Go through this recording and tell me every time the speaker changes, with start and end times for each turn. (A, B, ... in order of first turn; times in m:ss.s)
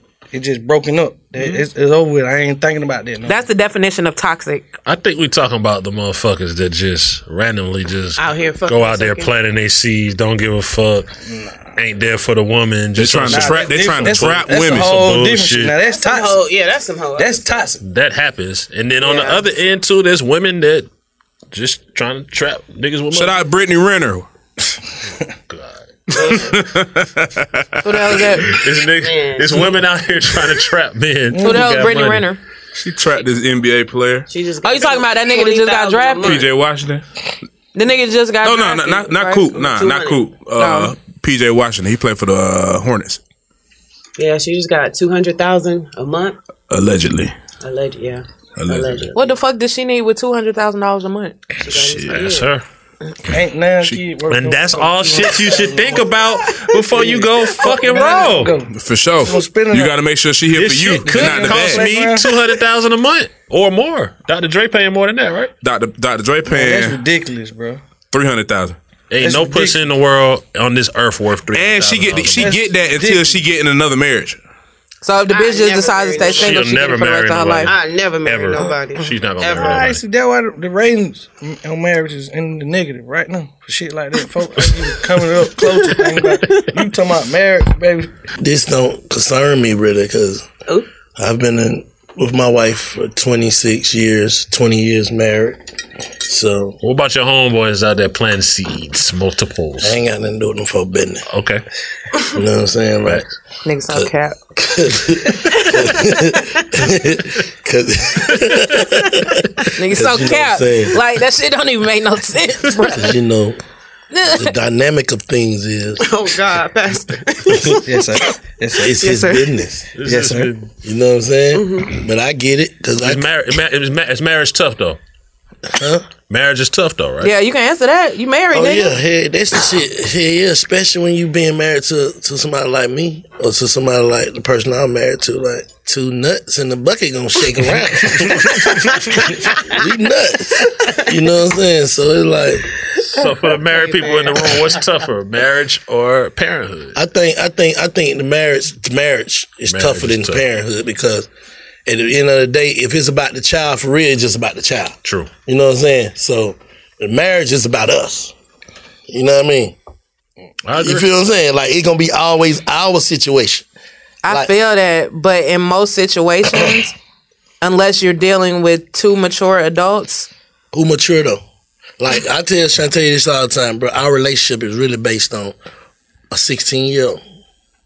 0:00.3-0:03.4 A
0:03.2-0:04.8 B
0:04.8-0:11.1 C
0:08.2-0:09.3 D
0:11.8-0:15.8 C
0:13.0-0:14.9 E
0:13.3-0:16.4 A
0:15.8-0:17.8 D
0:17.2-0:17.8 A
0:17.8-0:20.9 C
0:19.0-0:19.4 D
0:21.5-0:23.4 C
0:23.1-0:24.3 E
0:25.5-0:26.4 C
0:26.1-0:28.0 E
0:27.8-0:28.6 B
0:28.5-0:32.3 C
0:29.0-0:29.6 D
0:31.3-0:31.7 A
0:31.4-0:32.4 B
0:32.8-0:34.3 E
0:34.3-0:36.5 D
0:34.6-0:36.4 B
0:36.2-0:37.0 E
0:37.7-0:39.5 B
0:38.4-0:43.2 E
0:39.5-0:40.3 D
0:40.6-0:40.9 B
0:44.2-0:46.4 D
0:46.7-0:47.3 E
0:47.6-0:49.4 D
0:48.6-0:49.1 E
0:49.1-0:51.4 B
0:51.6-0:52.5 D
0:51.7-0:52.1 E
0:52.1-0:52.6 C
0:53.3-0:56.2 A
0:54.3-0:58.6 C
0:56.8-1:00.0 A
0:58.7-1:01.9 E
1:00.5-1:05.5 C
1:00.7-1:02.4 A
1:05.6-1:07.0 E
1:06.5-1:07.8 A
1:08.1-1:08.8 E
1:09.1-1:12.5 C
1:09.2-1:09.9 A
1:11.5-1:14.4 E
1:12.3-1:13.4 A
1:15.0-1:17.7 B
1:15.3-1:16.7 D
1:16.3-1:20.0 C
1:17.6-1:19.9 D
1:19.6-1:28.1 A
1:28.4-1:30.4 F
1:31.2-1:35.6 F
1:36.2-1:36.8 F
1:36.8-1:40.0 C
1:39.8-1:41.2 F
1:41.3-1:41.6 C
1:42.3-1:43.3 F
1:43.6-1:44.4 B
1:43.9-1:51.0 F
1:49.7-1:53.2 B
1:52.9-1:53.6 F
1:54.1-1:54.5 B
1:54.2-1:56.1 F
1:56.0-1:58.2 D
1:57.8-1:59.0 A
1:58.8-1:59.9 F
1:59.0-1:59.5 D
1:59.9-2:00.7 C
2:00.0-2:00.5 A
2:00.8-2:03.4 F
2:01.5-2:01.9 D
2:03.0-2:05.0 C
2:05.7-2:06.0 F
2:06.3-2:07.3 C
2:07.2-2:09.0 B
2:08.5-2:22.7 F
2:23.1-2:26.9 C
2:23.2-2:24.8 D
2:26.9-2:31.3 F
2:29.7-2:30.4 C
2:31.8-2:38.3 F
2:35.0-2:35.3 C
2:39.1-2:39.8 F
2:40.6-2:41.1 C
2:40.8-2:43.6 F
2:44.2-2:46.9 B
2:47.6-2:50.3 B
2:50.7-2:51.4 F
2:52.0-2:55.6 F
2:56.3-2:57.2 F